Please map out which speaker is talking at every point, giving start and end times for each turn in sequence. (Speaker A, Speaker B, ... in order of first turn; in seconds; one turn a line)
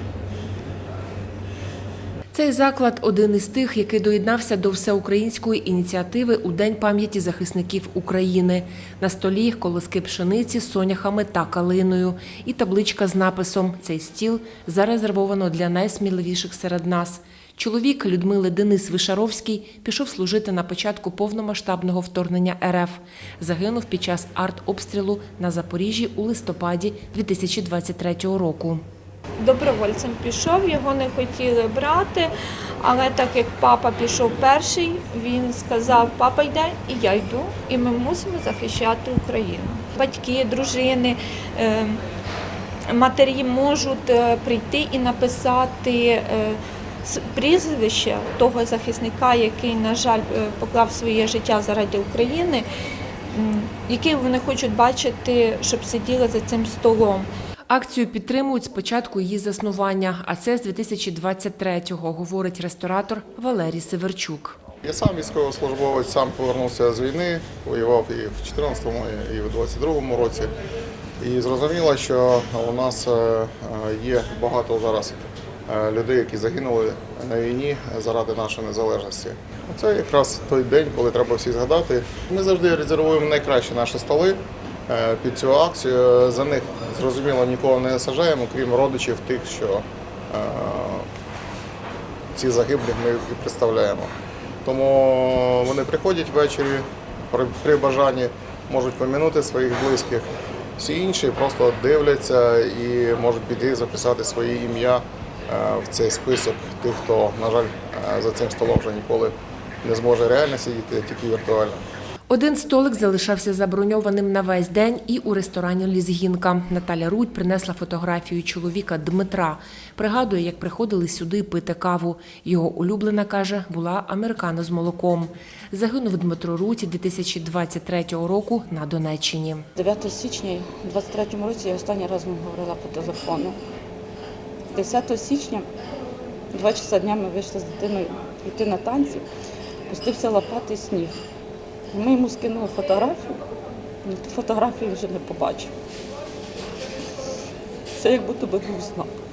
Speaker A: 2.3-28.8
Speaker B: 29.4-42.0
Speaker B: 42.9-52.6
Speaker B: 53.3-57.3
Speaker A: 57.7-64.6
Speaker C: 64.8-70.5
Speaker C: 71.2-91.1
Speaker C: 92.3-94.1
Speaker C: 94.6-111.8
Speaker A: 112.3-129.7
Speaker D: 129.8-133.6
Speaker D: 134.7-135.7
Speaker D: 136.5-139.3
Speaker D: 139.9-141.2
Speaker D: 141.9-143.4
Speaker D: 144.0-145.7
Speaker D: 147.9-149.1